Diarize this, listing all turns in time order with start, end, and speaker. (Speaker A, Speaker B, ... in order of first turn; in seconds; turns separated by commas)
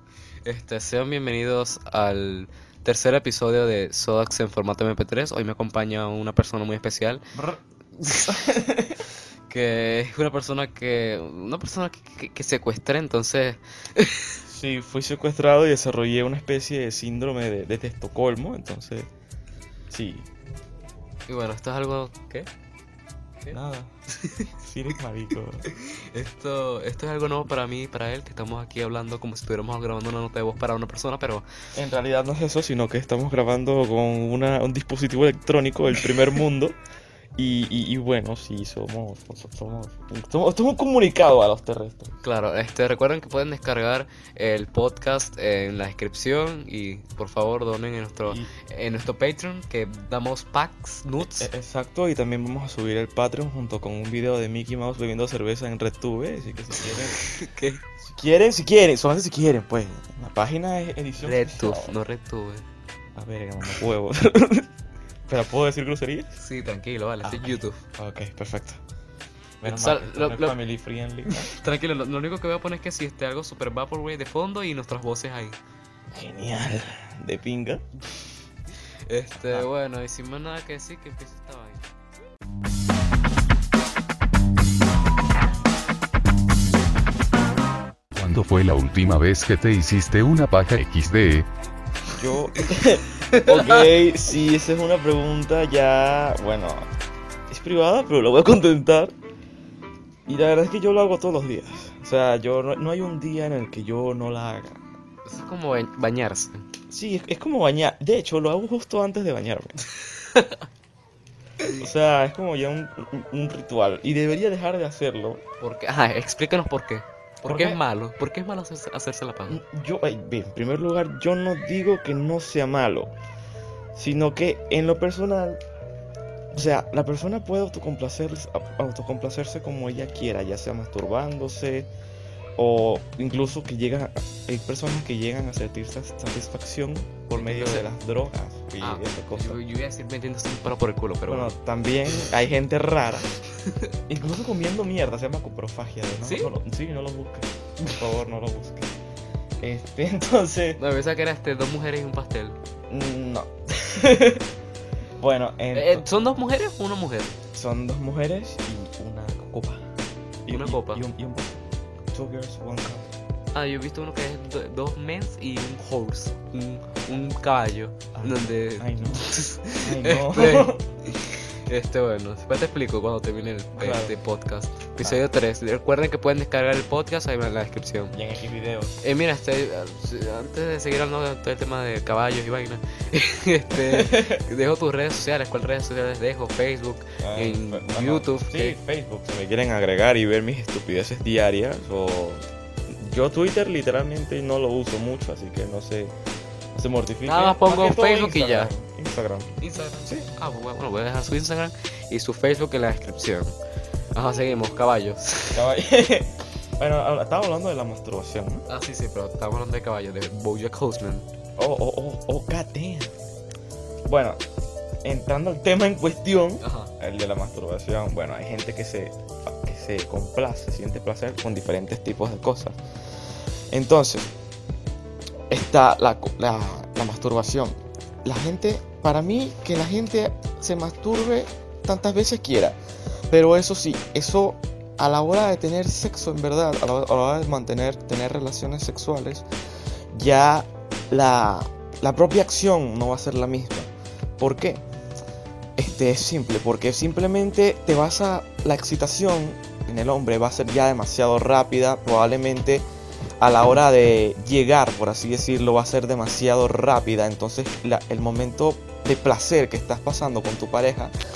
Speaker A: 0.5-7.2, Speaker B: 7.3-7.6, Speaker A: 8.0-8.4, Speaker B: 8.2-9.0, Speaker A: 9.5-14.4, Speaker B: 14.5-19.1, Speaker B: 19.9-20.3, Speaker A: 21.3-22.5, Speaker B: 23.5-23.9, Speaker A: 24.2-24.5, Speaker B: 24.6-25.7, Speaker A: 25.7-31.4, Speaker B: 31.7-36.8, Speaker B: 37.4-42.2, Speaker A: 42.2-51.5, Speaker B: 48.3-48.5, Speaker B: 51.2-57.2, Speaker A: 57.1-57.8, Speaker B: 58.0-61.9, Speaker A: 61.2-62.6, Speaker B: 63.1-64.7, Speaker B: 65.3-66.4, Speaker A: 66.4-67.8, Speaker B: 67.2-68.8, Speaker B: 69.6-71.5, Speaker A: 69.6-70.6, Speaker A: 71.3-75.6, Speaker B: 76.1-77.9, Speaker A: 79.1-81.9, Speaker B: 79.3-79.7, Speaker C: 88.2-91.5, Speaker B: 92.1-96.9, Speaker A: 93.3-93.9, Speaker B: 97.5-99.1, Speaker B: 100.3-104.8, Speaker A: 105.3-106.7, Speaker B: 106.9-109.7, Speaker B: 111.8-115.4, Speaker A: 115.6-119.6, Speaker B: 117.5-117.8, Speaker B: 119.5-123.1, Speaker B: 124.0-125.6, Speaker B: 126.5-131.9, Speaker B: 132.6-139.6, Speaker A: 137.3-137.9, Speaker A: 138.8-141.5, Speaker B: 141.3-143.3, Speaker B: 144.1-148.9, Speaker A: 146.2-146.5, Speaker B: 149.6-150.8, Speaker A: 150.8-152.6, Speaker B: 152.9-154.5, Speaker B: 155.2-156.1, Speaker A: 155.7-157.3, Speaker B: 157.5-159.9, Speaker B: 160.4-163.1, Speaker A: 160.5-161.0, Speaker A: 163.5-178.2, Speaker B: 168.1-169.2, Speaker B: 169.8-170.8, Speaker B: 173.8-174.1, Speaker B: 178.1-179.0, Speaker A: 179.0-188.8, Speaker B: 183.7-184.4, Speaker B: 187.2-196.1, Speaker B: 196.7-200.3, Speaker A: 197.3-198.7, Speaker A: 199.6-203.6, Speaker A: 204.1-205.6, Speaker B: 205.5-208.7, Speaker A: 208.7-211.3, Speaker B: 211.6-213.1, Speaker B: 214.1-214.4, Speaker B: 215.0-222.8, Speaker A: 216.6-216.9, Speaker B: 223.7-224.3, Speaker B: 225.5-232.8, Speaker B: 233.3-239.5, Speaker B: 240.1-244.8, Speaker B: 245.8-252.8, Speaker B: 253.4-261.1